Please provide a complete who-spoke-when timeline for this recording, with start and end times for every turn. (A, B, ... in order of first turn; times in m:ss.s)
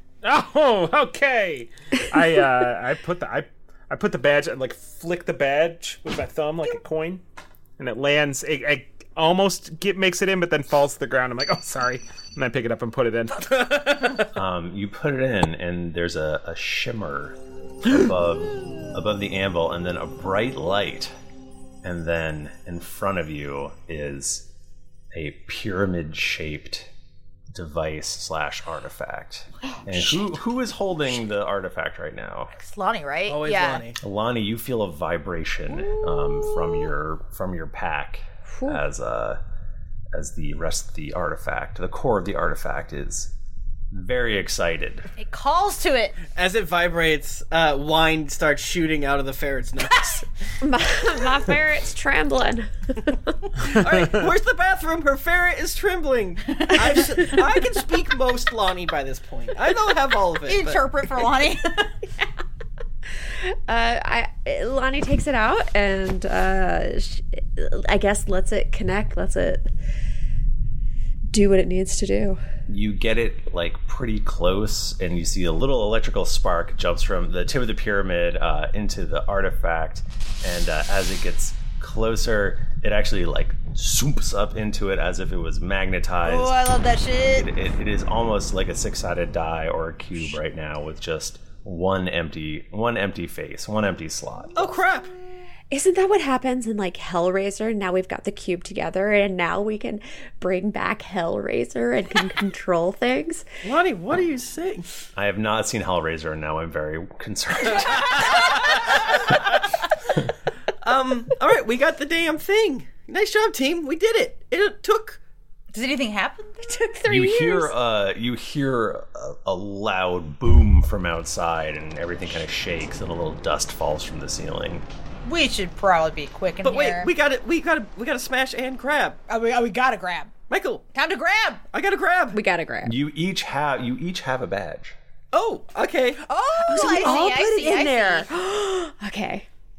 0:00.2-0:07.2 A
0:07.8-0:14.0 A
0:14.4-0:21.1 B
0:21.8-0:24.4 B
0:25.1-0:26.9 B
0:27.5-0:32.5 B
0:32.5-0:33.8 C
0:33.3-0:34.0 D
0:34.0-0:39.4 B
0:38.5-0:38.8 E
0:40.1-0:43.3 B
0:43.9-0:45.1 B
0:45.2-0:46.2 C
0:46.4-0:50.2 D
0:50.6-0:53.1 E
0:53.6-1:00.9 D
0:56.5-0:57.4 C
1:00.5-1:01.9 C
1:03.5-1:09.7 E
1:11.3-1:12.4 E
1:12.7-1:26.7 B
1:26.2-1:27.5 C
1:27.2-1:34.8 B
1:34.6-1:35.1 D
1:35.7-1:43.5 E
1:43.6-1:44.9 D
1:45.2-1:49.0 B
1:48.3-1:49.0 D
1:50.8-1:55.2 D
1:55.7-1:56.8 C
1:56.6-1:57.7 E
1:57.1-2:04.9 B
2:05.2-2:07.1 C
2:06.6-2:09.2 D
2:09.3-2:10.3 C
2:10.5-2:10.8 D
2:10.9-2:11.6 C
2:11.7-2:12.4 D
2:12.3-2:12.9 E
2:12.8-2:15.0 B
2:15.3-2:17.2 D
2:16.2-2:18.3 C
2:16.7-2:19.5 E